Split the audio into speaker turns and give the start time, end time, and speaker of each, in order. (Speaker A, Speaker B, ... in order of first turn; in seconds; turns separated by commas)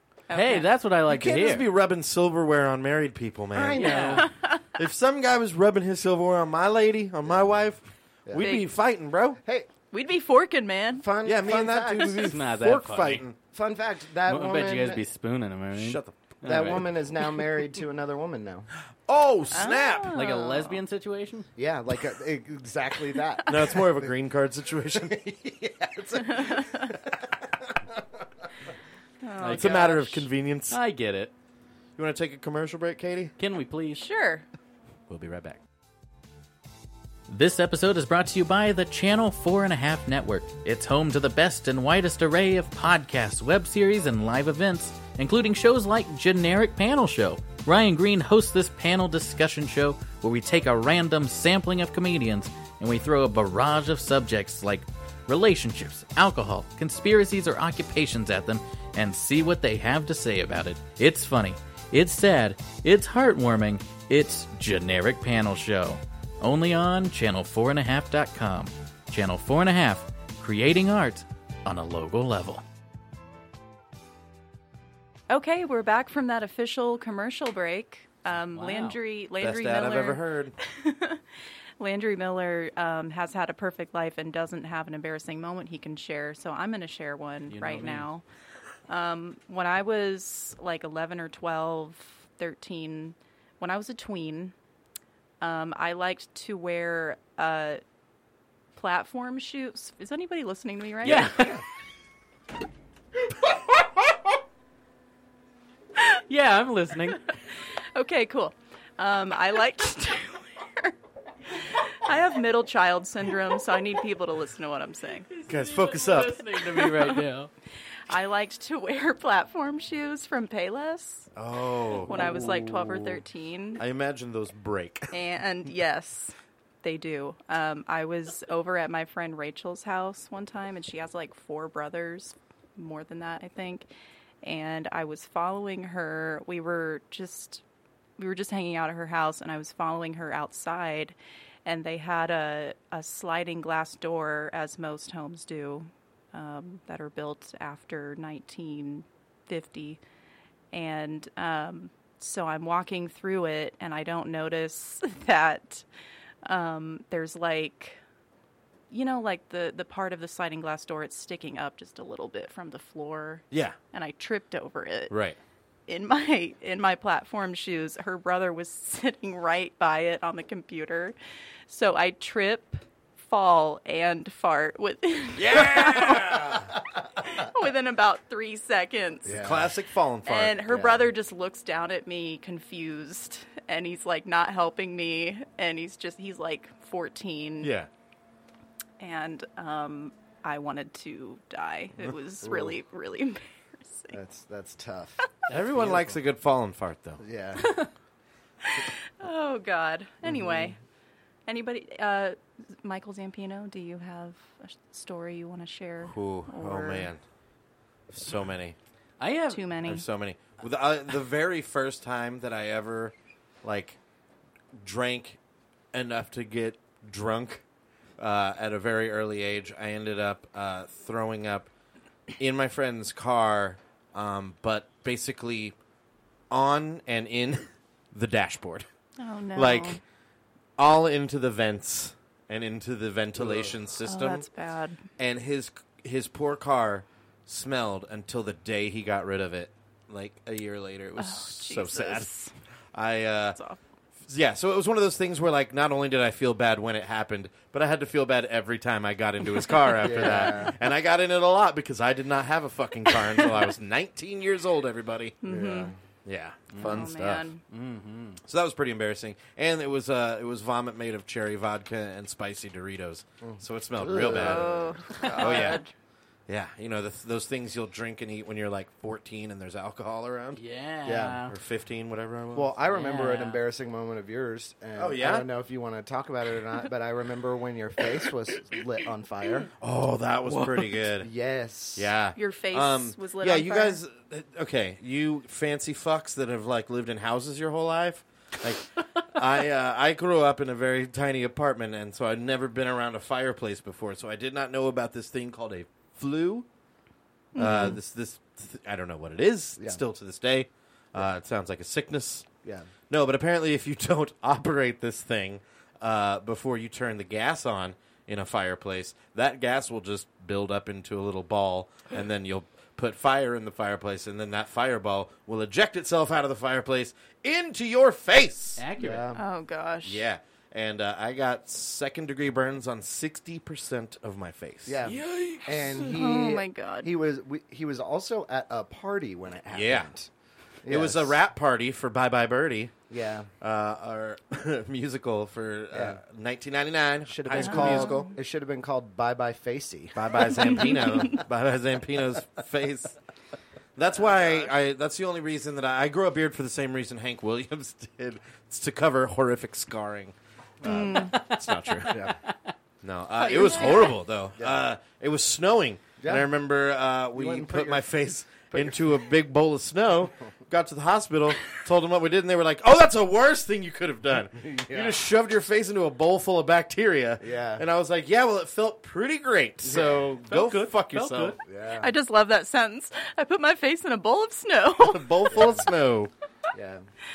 Speaker A: 0.3-0.7, Speaker B: 0.3-1.6, Speaker C: 1.1-9.4, Speaker D: 3.5-4.3, Speaker B: 3.7-4.3, Speaker A: 8.4-8.7, Speaker D: 9.4-9.7, Speaker A: 9.9-11.1, Speaker D: 11.0-12.3, Speaker C: 11.2-13.4, Speaker B: 12.2-13.2, Speaker D: 13.5-15.0, Speaker B: 14.3-16.9, Speaker C: 15.7-16.9, Speaker D: 16.4-18.7, Speaker C: 19.1-20.3, Speaker A: 19.5-20.8, Speaker B: 20.1-21.5, Speaker D: 21.6-24.1, Speaker C: 23.4-25.2, Speaker D: 24.9-28.4, Speaker A: 26.2-26.9, Speaker A: 29.2-30.3, Speaker B: 29.4-29.8, Speaker C: 29.5-30.8, Speaker B: 30.7-31.3, Speaker C: 32.0-33.3, Speaker B: 33.4-34.0, Speaker A: 34.0-34.4, Speaker B: 35.1-35.6, Speaker B: 37.3-72.6, Speaker A: 75.3-81.2, Speaker B: 78.5-79.0, Speaker C: 79.4-80.5, Speaker A: 81.8-88.2, Speaker B: 87.5-88.1, Speaker A: 88.9-94.5, Speaker A: 95.4-97.8, Speaker A: 98.7-101.4, Speaker B: 101.0-101.6, Speaker B: 106.3-107.3, Speaker A: 107.9-110.9, Speaker A: 111.5-115.3, Speaker B: 115.3-117.5, Speaker C: 115.5-116.4, Speaker A: 116.8-117.2, Speaker A: 118.1-121.3, Speaker C: 121.3-123.2, Speaker A: 122.0-123.8, Speaker C: 123.8-125.2, Speaker A: 125.1-133.9, Speaker A: 134.4-137.6, Speaker A: 138.2-150.0, Speaker A: 150.7-155.8, Speaker A: 156.4-158.0, Speaker A: 158.9-165.1, Speaker C: 163.5-163.8, Speaker C: 165.1-165.4, Speaker A: 165.9-171.1, Speaker A: 171.7-179.3, Speaker C: 175.3-176.7, Speaker D: 179.2-179.7, Speaker C: 179.2-180.6, Speaker A: 180.2-187.7, Speaker D: 180.7-181.1, Speaker C: 187.6-187.9, Speaker A: 189.0-194.2, Speaker D: 192.4-192.8, Speaker D: 194.1-195.2, Speaker B: 195.5-196.2, Speaker C: 195.5-197.2, Speaker D: 197.2-197.8, Speaker A: 198.6-200.8, Speaker A: 201.4-207.1, Speaker C: 206.0-207.2, Speaker C: 208.1-208.8, Speaker B: 209.2-209.7, Speaker A: 209.5-210.0, Speaker C: 209.8-213.1, Speaker C: 213.6-214.0, Speaker C: 214.8-215.4, Speaker C: 215.9-217.6, Speaker C: 218.2-221.7, Speaker C: 222.4-225.7, Speaker C: 226.5-228.8, Speaker A: 229.2-230.0, Speaker C: 229.5-230.0, Speaker C: 230.8-234.4, Speaker D: 233.4-233.7, Speaker A: 234.1-235.0, Speaker C: 235.2-242.3, Speaker A: 241.2-242.5, Speaker C: 242.9-243.6, Speaker A: 243.5-243.8, Speaker C: 244.3-255.4, Speaker D: 250.0-250.8, Speaker A: 255.4-255.9, Speaker D: 255.4-256.0, Speaker C: 256.2-257.5, Speaker B: 256.7-257.1, Speaker A: 256.8-257.6, Speaker B: 257.7-258.4, Speaker C: 258.5-265.8, Speaker D: 263.4-265.7, Speaker A: 264.3-265.9, Speaker C: 266.5-270.6, Speaker B: 270.6-271.5, Speaker D: 271.0-271.4, Speaker C: 271.5-272.7, Speaker D: 272.5-279.7, Speaker B: 272.8-273.6, Speaker C: 275.0-275.4, Speaker C: 279.8-281.3, Speaker B: 280.4-281.0, Speaker D: 281.2-282.1, Speaker C: 281.9-296.6, Speaker A: 282.3-284.0, Speaker A: 297.5-298.0, Speaker C: 297.6-302.5, Speaker D: 302.6-302.9, Speaker C: 303.1-318.8, Speaker B: 318.8-319.3, Speaker D: 319.0-319.4, Speaker A: 319.3-320.3, Speaker C: 320.0-325.0, Speaker D: 324.9-330.3, Speaker B: 325.0-326.2, Speaker A: 326.1-327.1, Speaker C: 329.7-330.1, Speaker D: 330.8-331.4, Speaker C: 330.9-332.9, Speaker D: 333.1-333.5, Speaker C: 333.6-338.3, Speaker D: 335.9-336.2, Speaker D: 337.3-341.4, Speaker A: 337.6-338.3, Speaker C: 340.1-343.1, Speaker A: 340.6-341.4, Speaker C: 343.9-352.3, Speaker D: 344.2-344.7, Speaker A: 350.8-351.3, Speaker B: 350.9-352.7, Speaker D: 352.1-352.4, Speaker C: 353.0-371.5, Speaker A: 353.4-354.2, Speaker D: 354.5-354.8, Speaker D: 356.2-356.5, Speaker D: 357.3-358.1, Speaker D: 358.7-359.2, Speaker D: 364.6-365.3, Speaker D: 367.4-367.8, Speaker D: 369.8-370.3, Speaker B: 370.5-371.6, Speaker D: 371.6-372.1, Speaker A: 372.0-375.5, Speaker C: 375.0-376.3, Speaker D: 375.5-375.9, Speaker D: 376.7-377.0